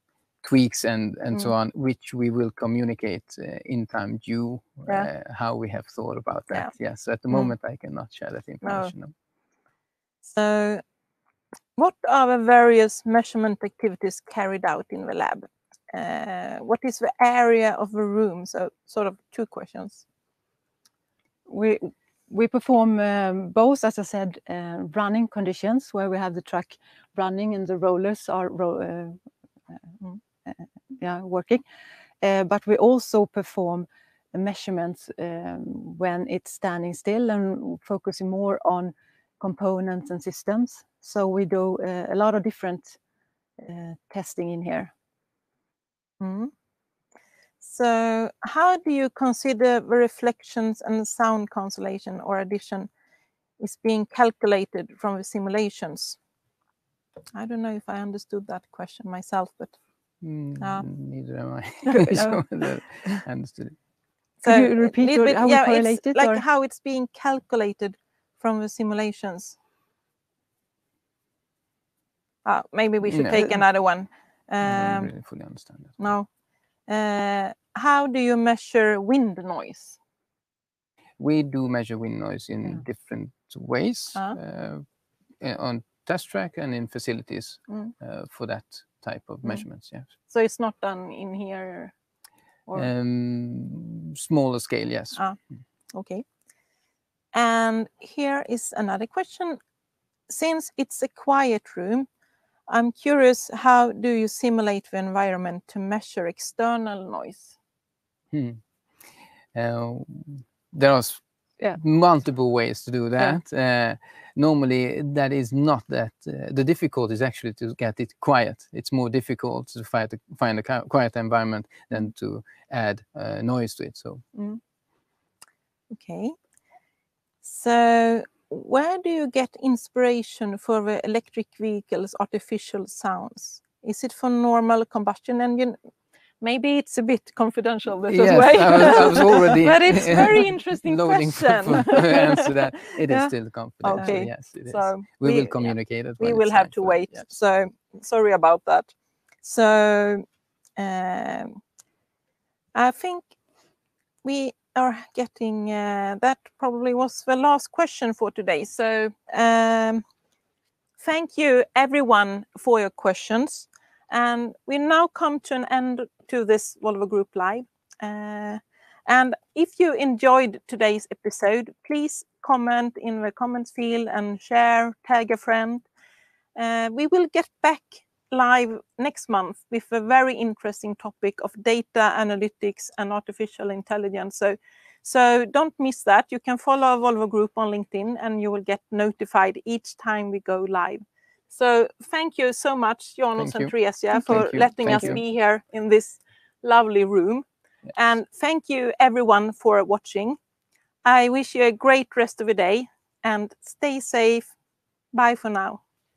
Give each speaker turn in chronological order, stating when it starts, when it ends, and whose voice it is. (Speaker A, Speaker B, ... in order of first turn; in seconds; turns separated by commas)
Speaker A: 0.4-9.1, Speaker B: 8.6-8.9, Speaker B: 10.3-10.8, Speaker B: 11.8-20.0, Speaker C: 21.5-29.2, Speaker C: 30.5-31.6, Speaker C: 32.2-43.0, Speaker C: 43.6-44.9, Speaker B: 46.2-46.5, Speaker B: 47.6-52.9, Speaker B: 53.6-56.2, Speaker B: 57.3-59.8, Speaker A: 60.2-63.8, Speaker B: 60.6-60.9, Speaker C: 61.9-62.4, Speaker B: 64.4-69.6, Speaker C: 64.4-66.4, Speaker B: 72.5-75.1, Speaker A: 73.0-73.5, Speaker A: 74.6-76.1, Speaker B: 76.0-76.3, Speaker B: 76.9-80.0, Speaker A: 81.2-84.8, Speaker A: 85.4-90.1, Speaker B: 90.3-91.9, Speaker A: 92.8-95.2, Speaker B: 95.9-96.2, Speaker B: 97.3-99.6, Speaker B: 100.3-102.1, Speaker B: 102.7-107.6, Speaker A: 108.3-108.6, Speaker A: 109.5-111.2, Speaker A: 111.7-124.2, Speaker B: 124.3-124.6, Speaker B: 125.9-126.4, Speaker B: 127.4-135.8, Speaker B: 136.4-143.3, Speaker A: 138.1-147.3, Speaker C: 143.8-144.1, Speaker B: 143.8-148.9, Speaker B: 149.4-150.2, Speaker B: 150.8-151.6, Speaker B: 152.7-153.3, Speaker B: 154.2-160.0, Speaker B: 161.0-175.9, Speaker B: 176.6-200.4, Speaker A: 193.4-195.2, Speaker B: 201.1-204.5, Speaker B: 205.1-205.8